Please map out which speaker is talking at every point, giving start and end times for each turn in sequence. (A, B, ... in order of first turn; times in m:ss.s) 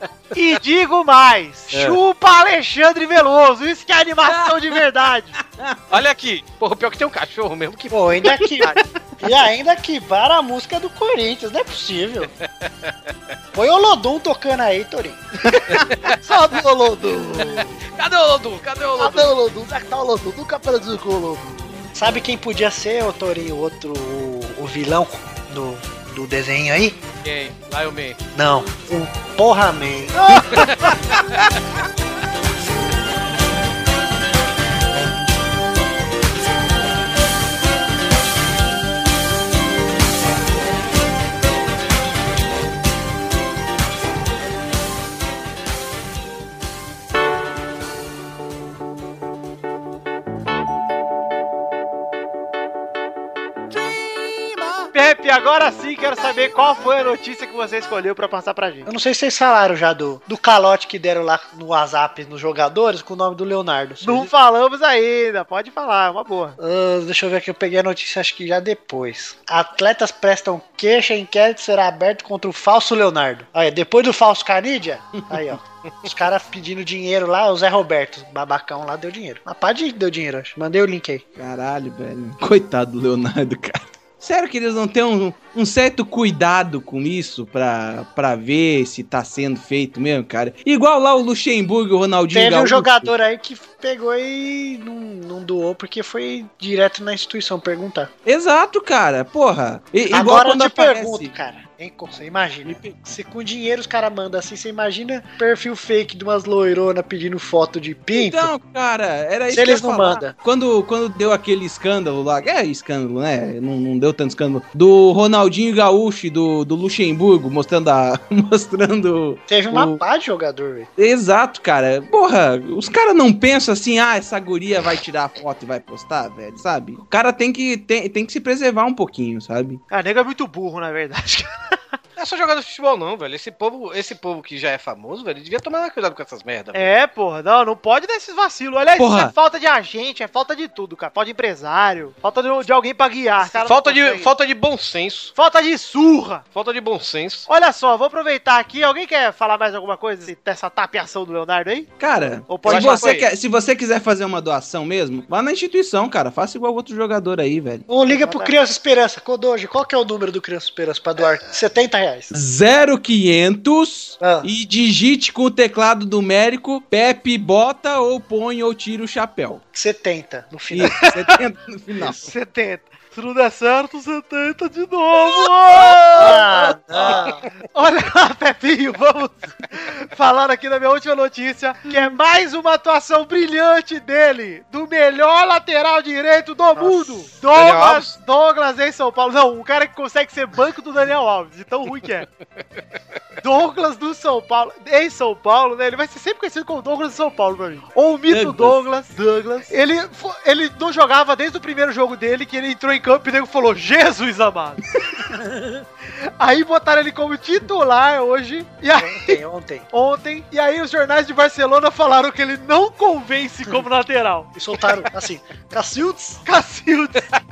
0:00.3-0:05.4 A
0:01.7-0:02.0 B
0:05.6-0:05.9 C
0:05.9-0:08.4 B
0:07.9-0:12.3 D
0:12.7-0:12.9 B
0:13.5-0:15.2 D
0:15.5-0:15.8 C
0:16.2-0:17.7 E
0:18.0-0:19.3 B
0:19.0-0:21.8 E
0:21.9-0:27.0 D
0:27.2-0:28.2 B
0:28.3-0:30.4 D
0:30.2-0:30.9 A
0:30.6-0:31.2 B
0:54.9-0:58.9 A
0:58.8-1:04.3 D
1:04.0-1:06.6 A
1:06.6-1:21.2 D
1:21.4-1:33.1 C
1:32.3-1:38.1 D
1:38.2-1:41.3 C
1:40.1-1:48.5 D
1:42.6-1:43.0 C
1:48.1-2:00.0 C
1:49.5-1:50.3 D
1:59.5-2:00.9 D
2:01.0-2:09.8 C
2:09.9-2:11.8 A
2:12.2-2:16.9 B
2:16.7-2:24.3 A
2:19.0-2:19.3 C
2:23.4-2:25.3 B
2:25.3-2:26.4 A
2:26.5-2:27.5 B
2:27.5-2:33.1 A
2:32.0-2:37.8 C
2:32.6-2:33.3 B
2:37.9-2:42.3 D
2:38.1-2:38.5 A
2:42.3-2:49.6 C
2:44.2-2:44.5 D
2:49.7-2:51.0 D
2:50.7-2:52.3 C
2:50.9-2:51.2 A
2:52.0-3:12.2 A
2:56.1-2:57.4 D
3:07.5-3:08.1 B
3:13.4-3:24.8 A
3:18.3-3:18.8 C
3:26.2-3:29.4 A
3:29.0-3:29.9 D
3:29.9-3:34.5 A
3:34.5-3:36.4 D
3:36.4-3:37.3 A